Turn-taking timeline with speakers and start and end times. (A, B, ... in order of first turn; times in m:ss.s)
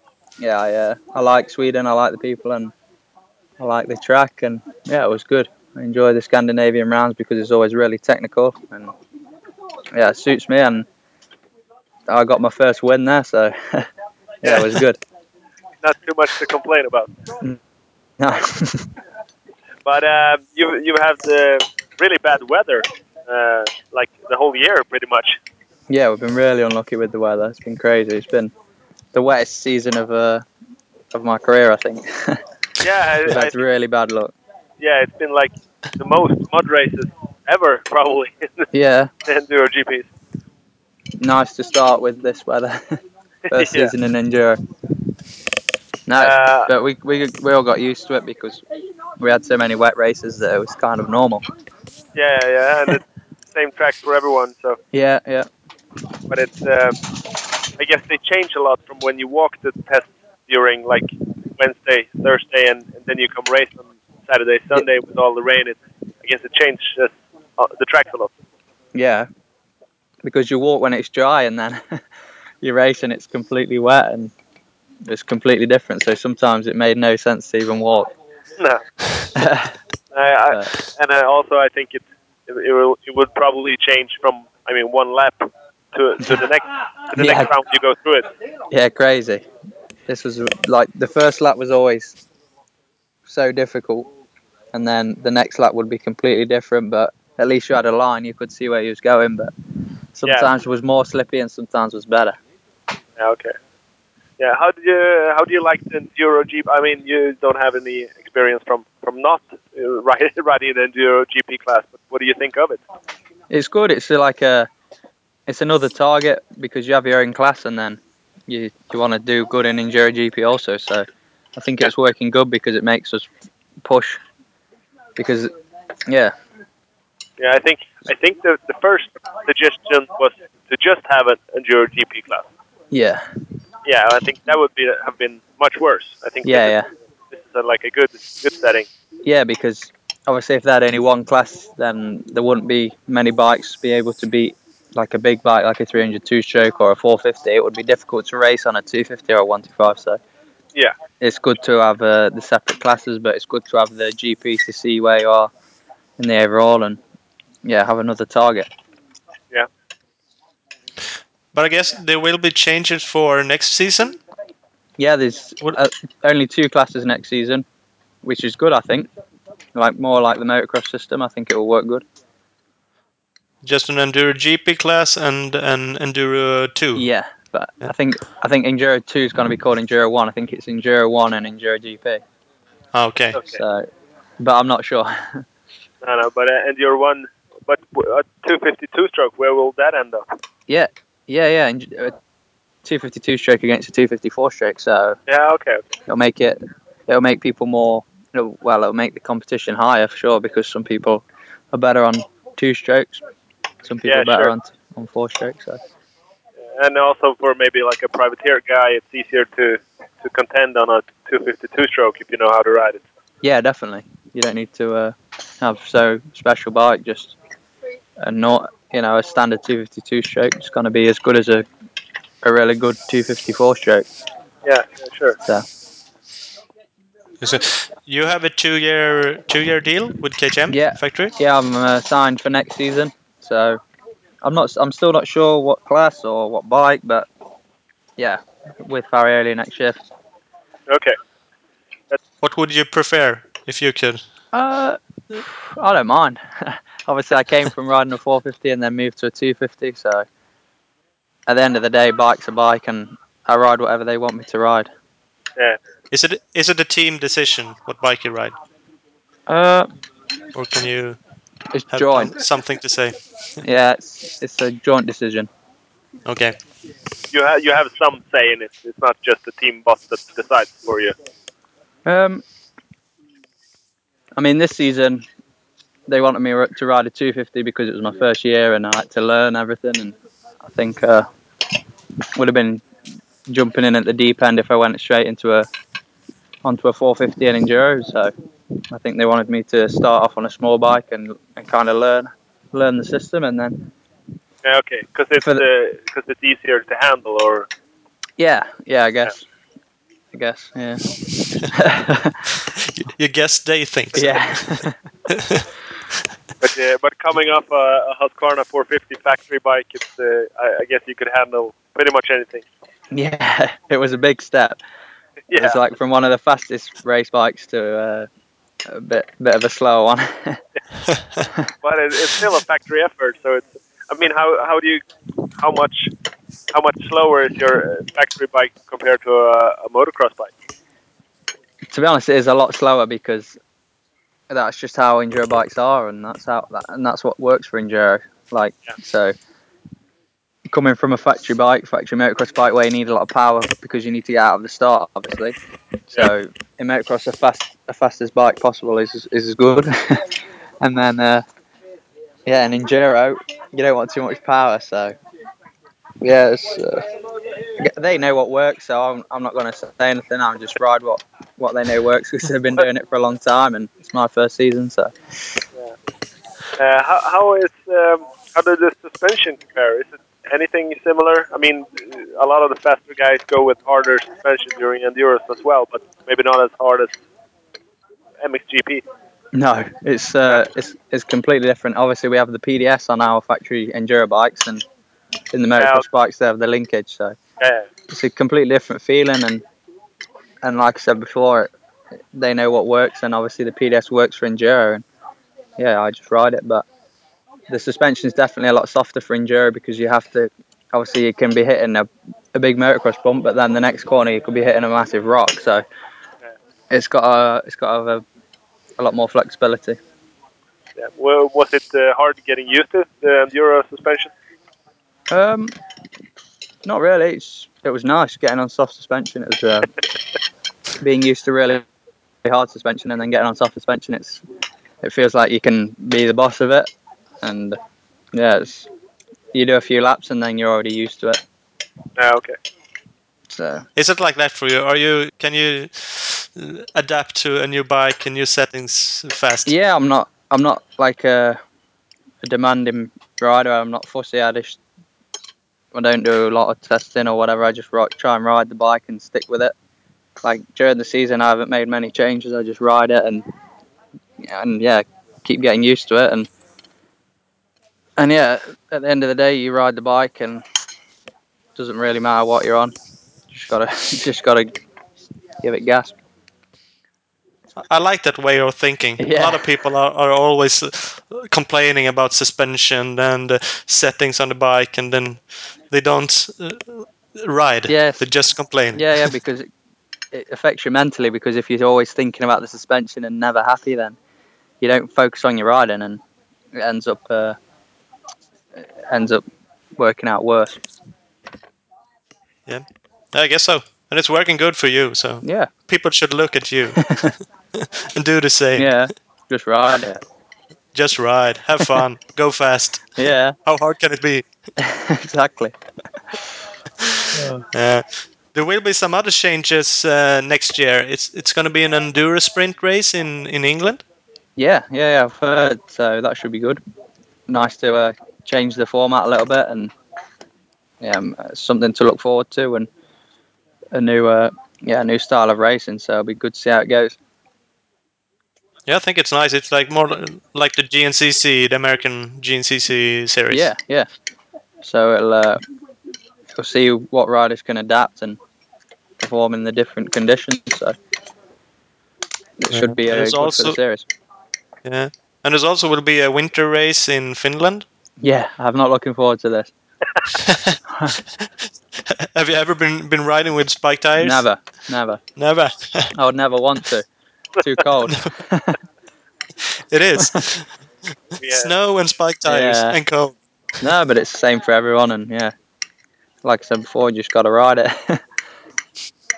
0:00.4-0:02.7 A
0:03.6-0:08.9 A
0:09.9-0:10.8 A
0:12.1-0:13.9 A
0:14.4-0:14.7 B
0:14.4-0:15.0 A
0:15.8-0:17.1 B
0:18.2-0:18.9 A
0:19.8-0:25.4 B
0:25.9-0:28.5 A
0:29.1-0:30.4 A
0:31.1-0:32.4 A
0:32.8-0:33.6 B
0:33.2-0:34.3 A
0:34.8-0:38.7 B
0:38.7-0:39.1 A
0:39.2-0:40.1 B
0:41.2-0:44.6 A
0:43.5-0:43.9 B
0:46.1-0:48.6 A
0:46.2-0:46.7 B
0:49.2-0:51.4 A
0:52.1-0:53.0 B
0:53.5-0:54.8 B
0:54.9-0:55.5 A
0:56.3-0:57.0 B
0:57.8-1:08.3 B
1:08.9-1:09.3 A
1:10.2-1:12.0 A
1:12.6-1:14.3 A
1:15.0-1:18.1 A
1:18.6-1:18.8 B
1:19.3-1:19.8 A
1:20.1-1:28.3 B
1:27.2-1:27.5 A
1:28.7-1:29.4 A
1:30.1-1:32.2 A
1:33.2-1:34.1 A
1:34.7-1:39.5 A
1:40.1-1:42.4 A
1:40.2-1:40.5 B
1:43.2-1:43.5 B
1:44.4-1:52.8 B
1:53.5-1:54.7 A
1:55.5-2:03.3 A
2:03.8-2:04.2 A
2:05.2-2:05.5 A
2:06.1-2:06.3 A
2:07.4-2:12.4 B
2:12.9-2:13.2 A
2:13.8-2:16.7 B
2:16.4-2:16.9 A
2:17.3-2:18.9 B
2:19.2-2:30.2 A
2:31.2-2:35.5 A
2:36.2-2:37.0 A
2:37.6-2:38.7 A
2:41.5-2:44.2 C
2:45.0-2:47.6 A
2:48.2-2:49.1 A
2:49.7-2:52.0 A
2:53.6-2:57.0 C
2:56.9-3:02.2 A
3:02.9-3:03.4 C
3:03.3-3:03.6 B
3:03.5-3:03.9 A
3:04.4-3:05.4 A
3:06.0-3:10.2 B
3:10.7-3:12.2 A
3:12.8-3:15.2 A
3:15.3-3:15.8 B
3:16.1-3:23.2 A
3:23.8-3:25.8 A
3:24.0-3:24.5 B
3:26.7-3:33.0 B
3:33.4-3:37.4 A
3:38.2-3:41.6 A
3:42.4-3:44.0 A
3:44.6-3:45.4 B
3:47.4-3:51.3 C
3:50.7-3:53.8 A
3:54.4-3:57.3 A
3:58.2-4:00.0 A
4:00.9-4:01.2 B
4:02.4-4:04.2 C
4:04.5-4:10.2 A
4:11.5-4:14.9 A
4:16.1-4:18.5 C
4:19.5-4:19.9 A
4:20.5-4:21.2 C
4:21.7-4:22.3 A
4:21.9-4:23.2 C
4:23.6-4:25.5 A
4:26.2-4:26.6 C
4:27.3-4:31.1 B
4:32.0-4:32.4 A
4:34.4-4:35.2 A
4:36.1-4:41.3 A
4:42.4-4:42.8 A
4:43.5-4:45.7 A
4:46.6-4:48.3 A
4:48.9-4:53.8 A
4:54.6-4:57.7 B
4:58.4-4:59.4 A
5:00.3-5:02.5 A
5:02.7-5:05.6 C
5:04.1-5:05.0 A
5:06.6-5:12.6 B
5:13.1-5:14.8 A
5:15.5-5:15.8 B
5:15.5-5:18.3 A
5:18.8-5:20.6 A
5:21.8-5:25.0 B
5:25.6-5:26.1 B
5:26.7-5:30.5 B
5:31.9-5:33.6 A
5:34.5-5:39.3 A
5:40.7-5:45.6 A
5:46.1-5:51.4 A
5:52.4-5:55.2 A
5:56.2-5:57.1 A
5:57.8-6:05.6 A
6:06.8-6:17.2 B
6:18.4-6:19.0 B
6:19.5-6:24.8 A
6:25.5-6:27.4 A
6:25.8-6:26.0 B
6:27.6-6:27.9 B
6:28.1-6:29.6 A
6:30.6-6:31.7 A
6:32.3-6:35.0 A
6:35.8-6:36.8 A
6:37.7-6:45.8 A
6:46.9-6:48.2 A
6:49.0-6:50.0 A
6:51.0-6:54.3 B
6:55.3-6:55.7 A
6:56.8-6:59.9 A
7:01.0-7:01.8 A
7:02.4-7:04.4 A
7:05.0-7:06.9 A
7:07.4-7:07.8 A
7:08.3-7:08.9 A
7:09.5-7:11.4 A
7:12.2-7:12.6 B
7:13.5-7:13.8 A
7:14.0-7:19.7 C
7:19.6-7:21.6 A
7:22.4-7:24.8 A
7:25.9-7:29.7 A
7:30.4-7:33.4 A
7:34.4-7:36.5 A
7:38.2-7:40.6 A
7:41.8-7:42.9 A
7:43.5-7:44.7 A
7:45.6-7:46.1 A
7:47.8-7:59.3 C
7:49.2-7:49.7 A
7:57.9-7:58.2 A
7:58.9-7:59.7 A
8:00.3-8:04.2 A
8:04.8-8:06.2 A
8:06.7-8:07.6 A
8:08.7-8:09.4 A
8:10.0-8:10.8 A
8:12.7-8:18.9 C
8:15.4-8:15.7 A
8:18.8-8:20.2 A
8:20.9-8:24.4 C
8:23.2-8:23.6 A
8:24.8-8:25.7 A
8:27.7-8:34.0 C
8:34.6-8:36.8 A
8:37.5-8:39.9 A
8:41.0-8:42.9 A
8:43.9-8:47.2 A
8:48.9-8:53.7 C
8:53.5-8:54.1 A
8:54.8-8:55.6 A
8:56.5-8:58.4 A
8:59.2-9:01.0 A
9:02.6-9:04.0 A
9:02.7-9:03.8 C
9:04.8-9:07.8 C
9:08.2-9:09.7 A
9:10.3-9:10.8 C
9:10.9-9:11.2 A
9:12.1-9:14.4 C
9:14.2-9:15.2 A
9:15.4-9:16.1 C
9:16.1-9:17.1 A
9:17.6-9:18.8 A
9:18.0-9:18.3 C
9:19.8-9:20.7 C
9:21.4-9:21.7 B
9:21.5-9:23.3 C
9:22.4-9:23.0 A
9:23.8-9:25.5 A
9:26.4-9:28.2 A